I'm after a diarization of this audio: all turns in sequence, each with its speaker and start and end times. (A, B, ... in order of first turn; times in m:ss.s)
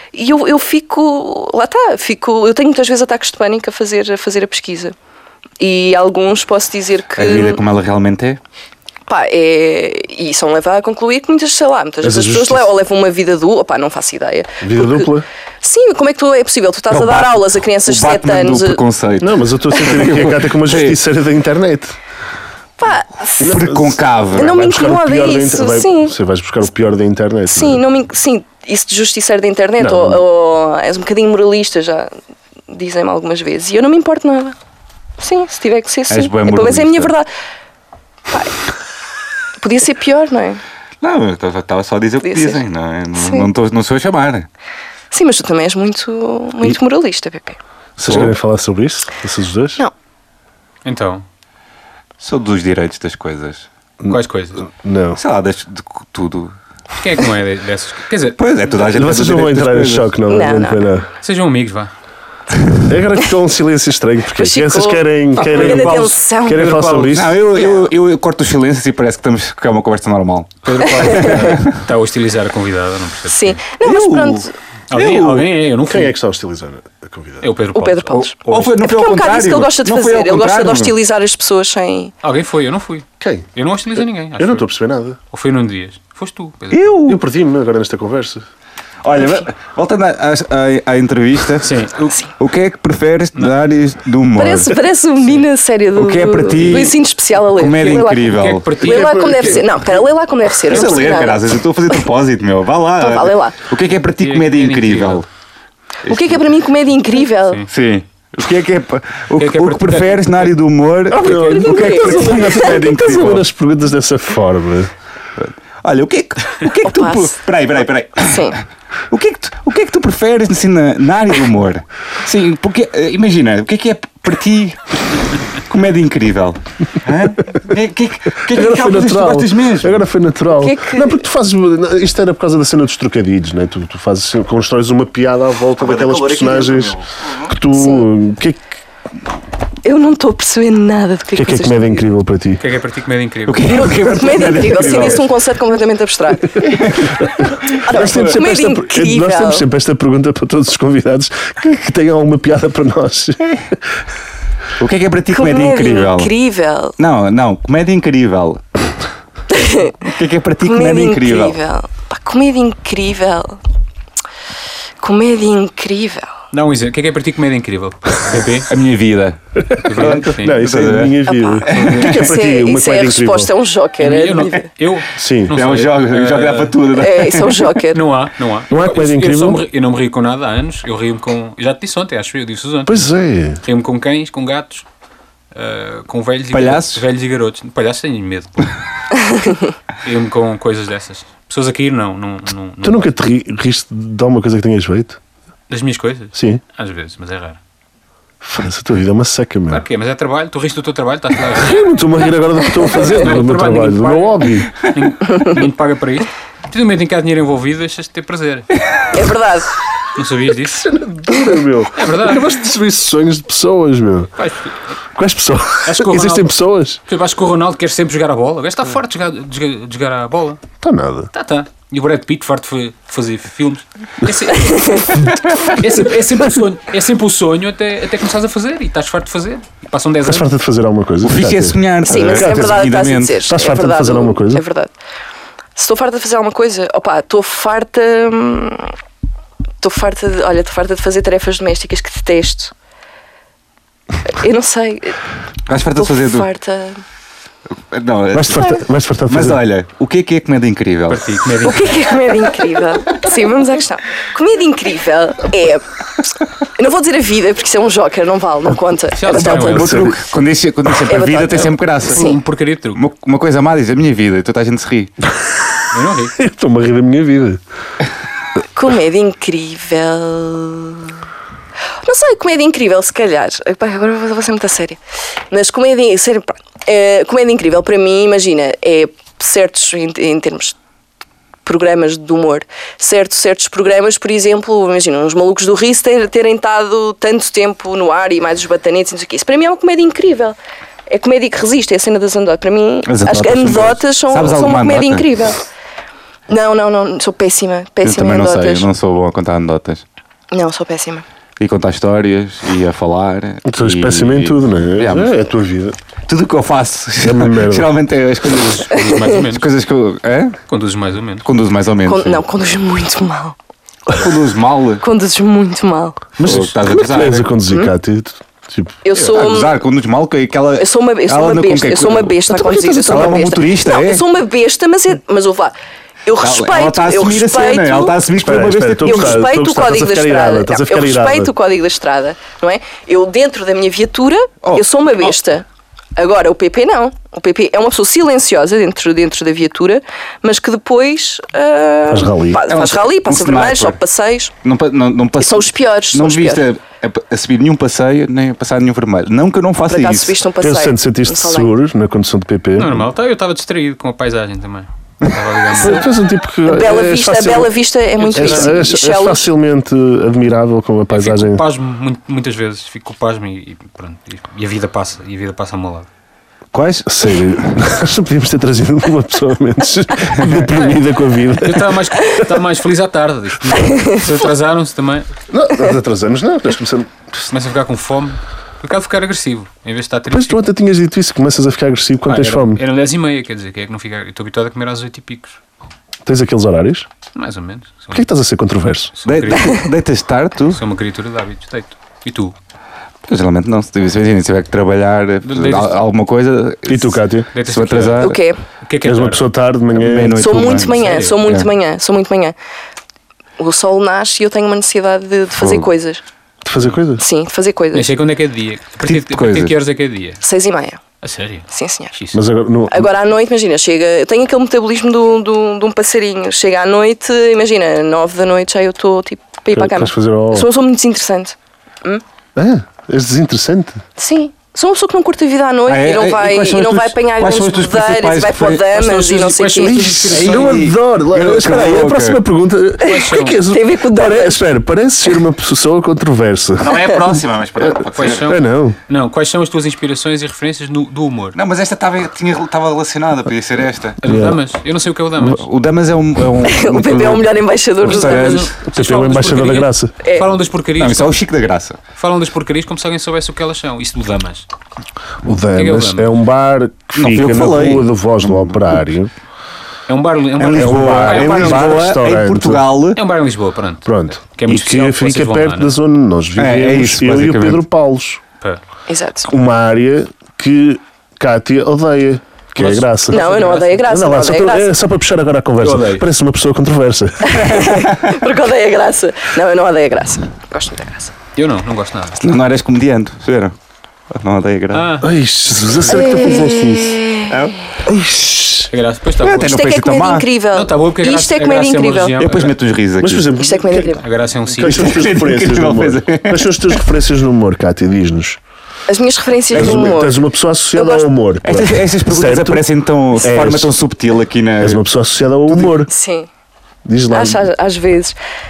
0:00.1-0:05.0 A
0:05.6-0:07.6 A
0:07.2-0:08.4 B
0:09.1-0:15.1 A
0:12.0-0:12.7 C
0:14.6-0:15.3 C
0:15.6-0:18.8 A
0:16.9-0:21.0 B
0:19.2-0:22.0 C
0:22.8-0:23.7 A
0:23.4-0:27.8 C
0:23.4-0:24.6 B
0:24.4-0:26.2 A
0:27.5-0:32.1 A
0:29.8-0:30.2 C
0:32.7-0:34.6 A
0:35.2-0:37.3 A
0:36.1-0:37.1 B
0:38.3-0:38.6 A
0:39.6-0:40.6 A
0:41.0-0:44.5 B
0:42.2-0:42.6 A
0:43.2-0:43.5 A
0:45.1-0:47.6 A
0:48.0-0:49.8 C
0:48.0-0:48.3 B
0:50.8-0:51.2 D
0:52.2-0:53.7 B
0:54.0-0:55.2 C
0:54.1-0:54.6 D
0:55.2-0:56.5 B
0:56.9-0:58.4 D
0:58.4-1:00.1 B
0:58.8-1:01.1 C
1:00.3-1:00.9 A
1:01.2-1:01.9 D
1:02.9-1:07.4 C
1:04.4-1:07.1 A
1:05.4-1:07.2 D
1:07.1-1:11.8 B
1:10.6-1:13.6 D
1:13.3-1:14.5 A
1:13.8-1:15.4 B
1:14.9-1:16.1 D
1:15.8-1:17.5 C
1:17.4-1:18.8 D
1:17.8-1:22.1 A
1:18.5-1:21.0 B
1:22.2-1:24.7 D
1:23.2-1:23.5 C
1:24.4-1:25.2 C
1:25.3-1:26.9 D
1:26.7-1:27.2 B
1:27.0-1:28.4 C
1:29.0-1:31.8 B
1:29.2-1:29.4 A
1:31.6-1:32.2 D
1:32.4-1:34.8 B
1:34.4-1:42.0 A
1:35.9-1:38.7 B
1:38.2-1:39.6 D
1:38.8-1:39.6 C
1:40.6-1:45.2 B
1:43.0-1:43.6 A
1:44.2-1:45.2 D
1:46.0-1:46.4 B
1:46.1-1:47.6 A
1:47.7-1:53.5 B
1:49.4-1:50.5 D
1:51.1-1:54.9 C
1:51.2-1:51.8 D
1:51.3-1:52.8 A
1:55.4-1:58.5 B
1:56.8-1:57.3 A
1:58.2-1:58.6 A
1:59.1-2:10.1 B
2:08.5-2:18.7 C
2:10.5-2:11.2 A
2:15.8-2:17.5 B
2:17.7-2:18.1 A
2:19.8-2:22.1 A
2:21.4-2:22.6 C
2:22.6-2:23.9 D
2:23.5-2:25.3 B
2:23.7-2:26.6 A
2:26.6-2:28.4 B
2:27.8-2:29.6 A
2:27.9-2:33.8 C
2:34.8-2:36.3 B
2:35.3-2:37.0 A
2:37.0-2:38.8 B
2:39.5-2:40.0 A
2:40.0-2:41.6 B
2:40.6-2:43.6 A
2:45.0-2:46.3 A
2:46.5-2:48.7 D
2:48.7-2:49.4 B
2:49.7-2:53.5 C
2:49.8-2:50.6 D
2:49.9-2:51.2 B
2:51.2-2:54.7 A
2:51.7-2:52.1 B
2:51.7-2:52.1 D
2:54.0-2:56.8 D
2:55.2-2:55.6 C
2:55.5-2:57.6 B
2:57.0-2:58.0 A
2:57.9-3:03.1 D
2:58.7-2:59.6 C
3:02.9-3:03.6 C
3:03.6-3:04.8 D
3:05.5-3:08.7 D
3:06.5-3:07.0 B
3:10.0-3:13.1 D
3:12.8-3:15.2 C
3:15.7-3:17.6 D
3:16.3-3:16.6 C
3:18.4-3:19.8 C
3:19.7-3:21.8 D
3:21.6-3:24.7 C
3:22.9-3:28.7 D
3:29.1-3:29.7 A
3:30.2-3:30.9 D
3:30.7-3:34.3 C
3:32.0-3:32.4 D
3:34.4-3:35.0 D
3:35.2-3:37.0 C
3:35.8-3:36.5 D
3:37.1-3:40.6 D
3:40.8-3:41.3 C
3:41.3-3:50.5 D
3:44.7-3:45.2 A
3:50.2-3:52.8 C
3:51.2-3:53.4 B
3:52.1-3:54.9 A
3:53.5-3:54.6 C
3:55.8-3:58.9 A
3:59.8-4:02.7 A
4:04.3-4:05.2 A
4:05.7-4:06.5 B
4:06.0-4:07.0 A
4:07.9-4:11.5 B
4:08.3-4:09.6 C
4:11.1-4:12.0 D
4:11.6-4:15.9 A
4:16.8-4:19.7 A
4:19.2-4:20.0 D
4:19.3-4:22.2 B
4:19.3-4:20.3 C
4:21.1-4:22.4 A
4:21.6-4:23.0 D
4:23.0-4:25.1 B
4:25.9-4:26.4 D
4:26.3-4:27.6 C
4:28.7-4:31.1 A
4:32.0-4:35.0 A
4:35.5-4:40.8 A
4:41.7-4:50.6 A
4:51.1-4:55.6 A
4:53.1-4:55.3 B
4:56.5-4:58.9 A
4:58.0-5:00.0 B
5:00.5-5:01.2 A
5:01.6-5:05.3 B
5:03.6-5:06.0 C
5:06.3-5:10.6 B
5:07.2-5:07.9 C
5:08.5-5:09.7 D
5:10.7-5:11.5 D
5:11.4-5:12.4 B
5:12.1-5:13.6 A
5:14.1-5:15.0 B
5:15.0-5:16.2 A
5:16.4-5:19.0 C
5:16.4-5:17.5 B
5:19.0-5:19.7 A
5:19.2-5:24.2 B
5:20.8-5:25.7 A
5:22.5-5:23.3 C
5:26.3-5:28.2 A
5:26.4-5:29.5 B
5:28.4-5:31.5 C
5:29.0-5:35.6 A
5:34.6-5:35.4 B
5:36.2-5:44.5 A
5:42.1-5:42.6 C
5:42.7-5:44.0 B
5:44.6-5:50.4 B
5:45.4-5:46.7 A
5:49.9-5:51.7 A
5:50.6-5:53.1 C
5:52.8-5:56.1 D
5:55.8-5:57.8 C
5:56.7-5:59.5 A
5:58.2-5:58.8 D
5:58.3-6:01.6 C
6:01.1-6:06.1 D
6:06.7-6:07.1 B
6:07.0-6:12.1 C
6:11.6-6:15.3 D
6:15.5-6:17.3 C
6:17.4-6:20.6 D
6:20.3-6:22.8 C
6:22.3-6:25.6 D
6:26.2-6:27.1 C
6:27.4-6:28.3 D
6:28.1-6:29.1 C
6:29.1-6:29.9 D
6:29.2-6:30.8 B
6:30.7-6:32.6 D
6:33.3-6:38.4 B
6:35.4-6:36.0 D
6:36.9-6:37.5 C
6:37.5-6:39.5 D
6:38.2-6:38.6 A
6:39.0-6:40.6 C
6:40.0-6:41.7 B
6:40.4-6:42.6 A
6:40.9-6:41.4 D
6:43.6-6:46.2 A
6:45.6-6:45.9 B
6:46.6-6:47.2 C
6:47.2-6:48.1 A
6:47.9-6:50.4 D
6:49.1-6:49.7 B
6:50.4-6:51.0 A
6:51.2-6:52.4 D
6:51.7-6:52.2 A
6:52.3-6:53.1 C
6:52.9-7:02.2 A
6:59.7-7:00.7 C
7:02.6-7:04.0 C
7:04.2-7:10.0 A
7:05.9-7:08.8 B
7:08.9-7:10.8 D
7:09.8-7:17.0 C
7:10.3-7:12.4 B
7:13.0-7:13.6 D
7:13.0-7:14.6 A
7:16.8-7:18.5 B
7:17.8-7:19.0 C
7:18.2-7:21.6 D
7:21.6-7:24.2 B
7:24.2-7:25.7 D
7:24.2-7:24.6 C
7:25.4-7:28.7 B
7:26.6-7:28.7 A
7:28.0-7:31.4 D
7:28.9-7:30.1 C
7:31.0-7:32.0 B
7:32.2-7:34.6 D
7:35.4-7:39.3 C
7:35.8-7:36.3 D
7:37.2-7:39.0 B
7:40.1-7:42.0 D
7:40.6-7:43.2 B
7:40.6-7:42.8 C
7:43.2-7:46.0 D
7:44.0-7:48.4 C
7:46.6-7:47.8 B
7:49.1-7:49.5 A
7:49.5-7:53.4 C
7:52.8-7:53.0 B
7:53.3-7:54.1 D
7:53.3-7:55.0 A
7:54.1-7:57.8 C
7:55.8-7:56.3 D
7:57.4-8:01.3 A
7:57.8-7:58.3 B
8:01.6-8:02.4 D
8:02.4-8:03.8 B
8:04.3-8:05.1 B
8:04.9-8:05.3 D
8:05.2-8:07.1 C
8:06.1-8:07.8 B
8:06.1-8:07.5 A
8:08.1-8:08.9 C
8:08.9-8:09.8 D
8:09.4-8:10.5 B
8:09.7-8:12.4 A
8:10.7-8:12.8 D
8:12.4-8:13.5 B
8:13.2-8:18.6 C
8:13.6-8:14.2 A
8:14.2-8:15.2 D
8:14.8-8:17.0 B
8:19.1-8:20.4 A
8:19.7-8:20.1 B
8:19.7-8:23.9 C
8:20.9-8:21.3 A
8:21.6-8:25.0 B
8:24.8-8:26.1 C
8:25.7-8:26.0 B
8:26.1-8:26.5 A
8:27.0-8:27.7 C
8:27.3-8:28.4 A